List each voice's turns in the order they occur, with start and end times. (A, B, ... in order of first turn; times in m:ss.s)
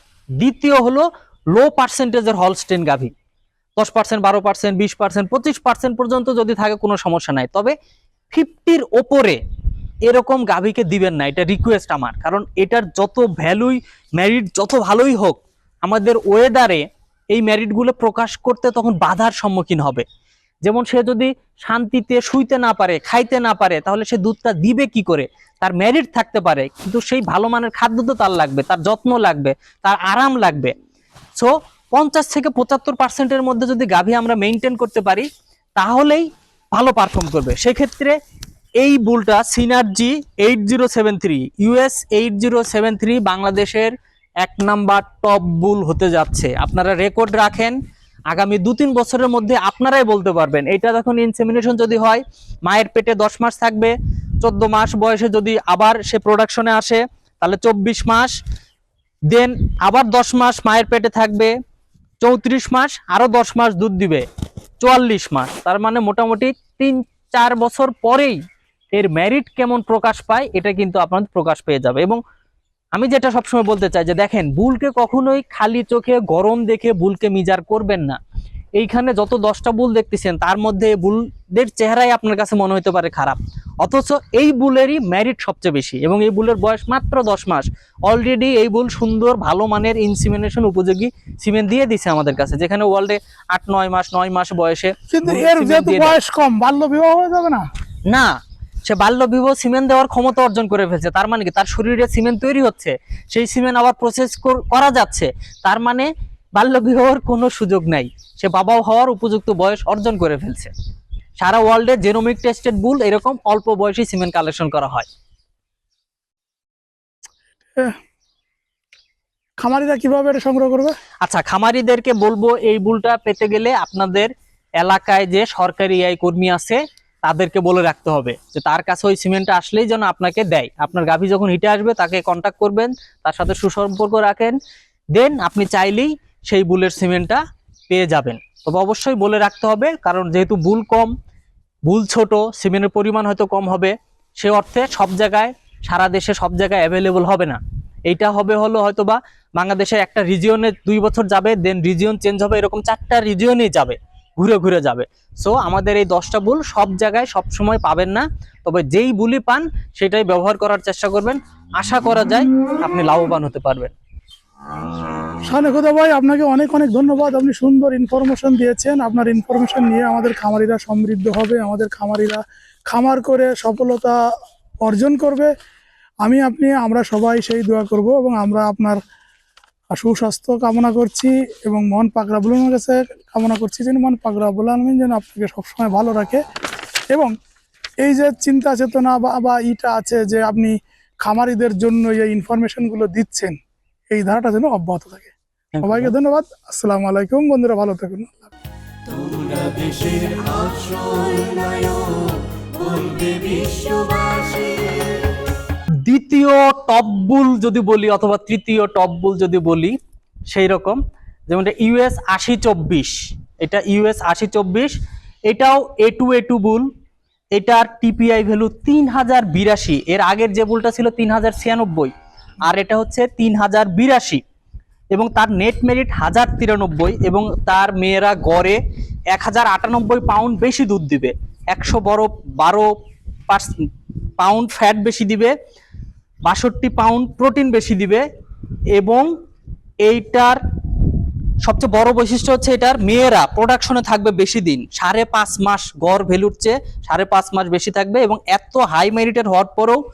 0:00.4-0:03.1 A
0:03.8-0:07.7 A
0:08.3-0:09.4 A
0:10.0-0:20.0 A
0:20.6-0:30.7 A
0:31.3-0:38.1 A
0:38.8-0:47.8 A
0:48.3-0:58.3 A
0:59.3-1:01.5 A
1:02.2-1:04.2 A
1:04.8-1:08.4 A
1:08.9-1:12.2 A
1:12.9-1:18.2 A
1:18.8-1:36.2 A
1:35.1-1:37.6 B
1:38.8-1:50.7 A
1:51.4-1:55.1 A
1:59.6-2:00.9 B
2:01.2-2:14.5 A
2:15.1-2:21.1 A
2:21.9-2:43.9 A
2:45.5-2:54.1 B
2:54.8-2:55.5 B
2:56.2-2:59.0 B
2:59.9-3:06.4 B
3:08.0-3:13.6 B
3:14.1-3:15.3 B
3:15.7-3:16.1 A
3:15.8-3:18.5 B
3:19.0-3:25.3 C
3:26.0-3:30.0 A
3:30.5-3:34.9 A
3:35.5-3:36.8 A
3:37.5-3:42.1 A
3:42.6-3:44.4 A
3:45.1-3:48.8 A
3:49.3-3:52.9 A
3:54.4-3:55.5 A
3:56.4-3:58.2 A
3:58.9-3:59.3 A
4:00.0-4:00.6 A
4:01.6-4:10.0 A